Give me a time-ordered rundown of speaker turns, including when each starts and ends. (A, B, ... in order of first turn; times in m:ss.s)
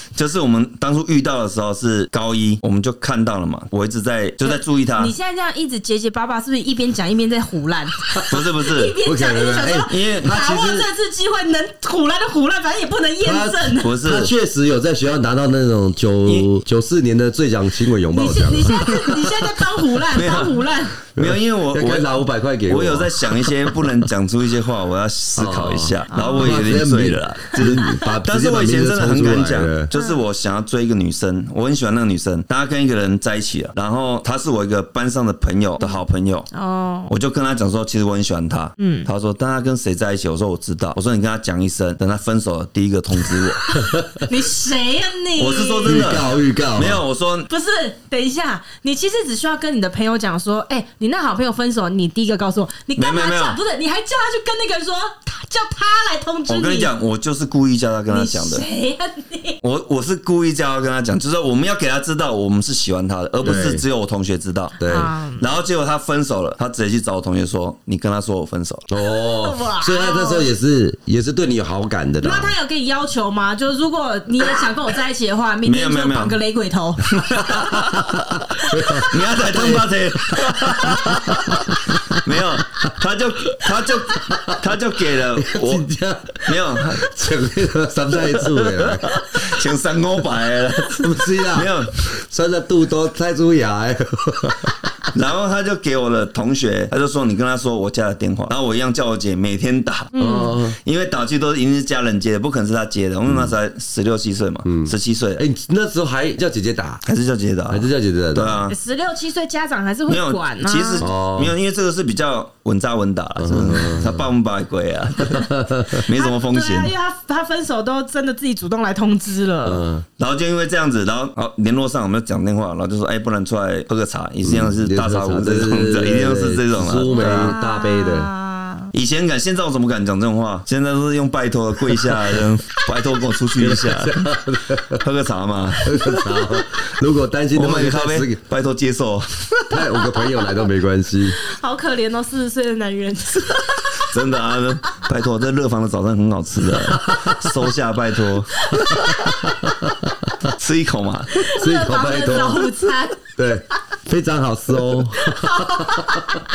0:00.1-0:05.1 A
0:04.4-0:13.9 B
0:08.3-0:09.0 A
0:09.0-0:09.9 C
0:09.9-0:10.9 A
0:13.2-0:19.6 C
0:13.8-0:14.3 A
0:18.1-0:21.0 B
0:20.1-0:22.1 A
0:21.2-0:24.1 C
0:22.7-0:36.5 A
0:25.4-0:29.9 C
0:26.1-0:26.8 B
0:27.7-0:28.1 B
0:29.9-0:30.2 B
0:35.8-0:37.1 B
0:37.1-0:43.7 A
0:38.8-0:39.1 B
0:43.4-0:46.1 B
0:43.8-0:44.2 C
0:45.4-0:47.5 A
0:45.8-0:47.0 C
0:47.5-0:56.9 B
0:53.0-0:53.6 A
0:56.5-0:58.6 A
0:58.1-0:59.6 B
0:59.6-1:08.8 A
1:03.4-1:03.8 C
1:04.8-1:05.1 C
1:04.8-1:05.4 B
1:08.9-1:12.5 C
1:09.4-1:10.5 B
1:12.2-1:17.8 B
1:15.6-1:16.4 A
1:17.1-1:18.4 A
1:17.6-1:22.9 C
1:18.6-1:19.2 B
1:19.0-1:25.8 A
1:23.5-1:24.6 C
1:25.4-1:29.2 C
1:26.4-1:27.1 A
1:28.3-1:32.0 A
1:30.9-1:35.1 C
1:35.1-1:40.1 A
1:40.1-1:40.6 B
1:40.2-1:40.8 C
1:40.8-1:45.4 A
1:43.3-1:43.5 C
1:44.6-1:47.0 C
1:47.0-1:48.8 A
1:47.7-1:48.6 C
1:48.7-1:51.1 B
1:50.1-1:56.9 A
1:51.0-1:51.6 C
1:53.4-1:54.3 C
1:55.2-1:56.0 C
1:55.2-1:55.5 B
1:56.1-1:59.8 B
1:59.6-2:00.0 C
2:00.2-2:07.6 A
2:04.4-2:08.3 C
2:07.1-2:08.9 B
2:08.9-2:14.2 A
2:13.6-2:15.0 C
2:14.9-2:16.7 A
2:15.8-2:18.4 C
2:17.5-2:20.0 A
2:19.7-2:21.4 C
2:21.3-2:24.1 B
2:24.0-2:28.6 A
2:26.7-2:27.5 C
2:28.6-2:29.7 B
2:28.7-2:30.3 C
2:30.5-2:31.5 A
2:31.4-2:33.3 B
2:31.5-2:32.8 C
2:33.4-2:36.4 C
2:35.1-2:36.4 B